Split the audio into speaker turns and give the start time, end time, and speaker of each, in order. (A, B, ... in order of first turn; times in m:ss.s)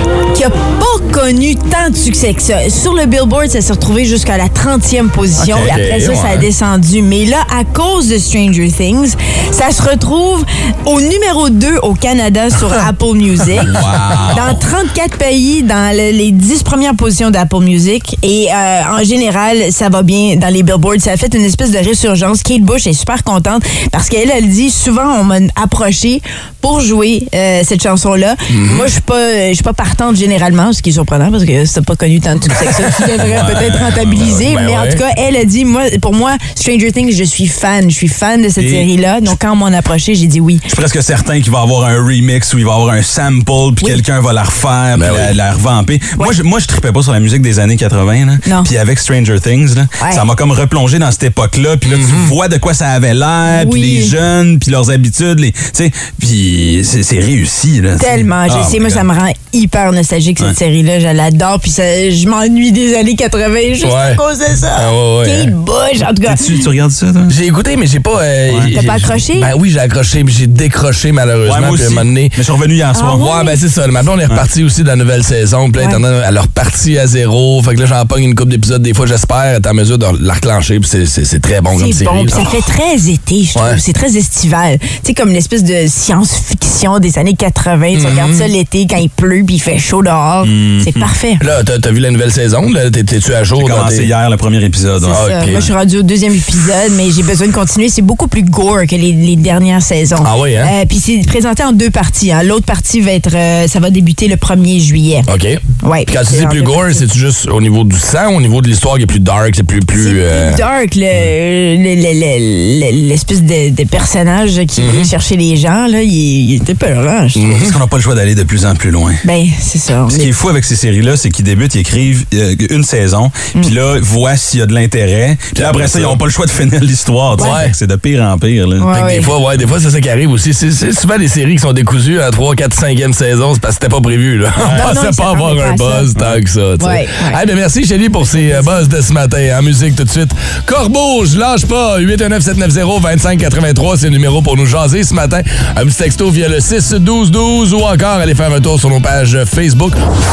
0:00.3-0:40.6 A
0:05.4-0:05.8 B
0:05.5-0:06.5 C
0:13.6-0:14.6 B
0:28.5-0:28.9 C
0:33.0-0:34.4 B
0:34.2-0:35.0 C
0:38.6-0:38.9 B
0:40.7-0:59.1 B
0:45.0-0:45.4 C
0:48.4-0:48.7 A
0:50.0-0:50.2 A
0:51.8-0:52.4 C
0:53.5-0:54.1 A
0:58.0-1:06.6 A
1:03.8-1:04.2 C
1:04.8-1:05.5 C
1:06.3-1:07.4 B
1:07.3-1:12.4 C
1:08.7-1:09.5 A
1:11.4-1:13.3 B
1:12.9-1:13.6 A
1:13.1-1:22.5 C
1:15.8-1:16.0 A
1:21.8-1:31.4 A
1:23.6-1:23.8 C
1:27.9-1:28.5 C
1:30.4-1:31.1 B
1:31.4-1:34.1 C
1:33.6-1:35.7 B
1:35.0-1:45.3 A
1:35.1-1:35.6 C
1:40.2-1:40.7 C
1:45.3-1:50.6 C
1:45.8-1:47.0 A
1:50.0-1:57.6 A
1:54.8-1:55.1 C
1:57.4-1:57.8 C
1:57.5-1:59.2 B
1:59.2-2:00.3 A
2:00.1-2:09.0 B
2:05.6-2:06.2 C
2:07.4-2:07.8 C
2:07.4-2:07.6 A
2:08.8-2:09.3 A
2:08.9-2:30.0 C
2:14.6-2:14.9 B
2:14.8-2:16.1 A
2:16.8-2:17.4 A
2:18.3-2:18.7 A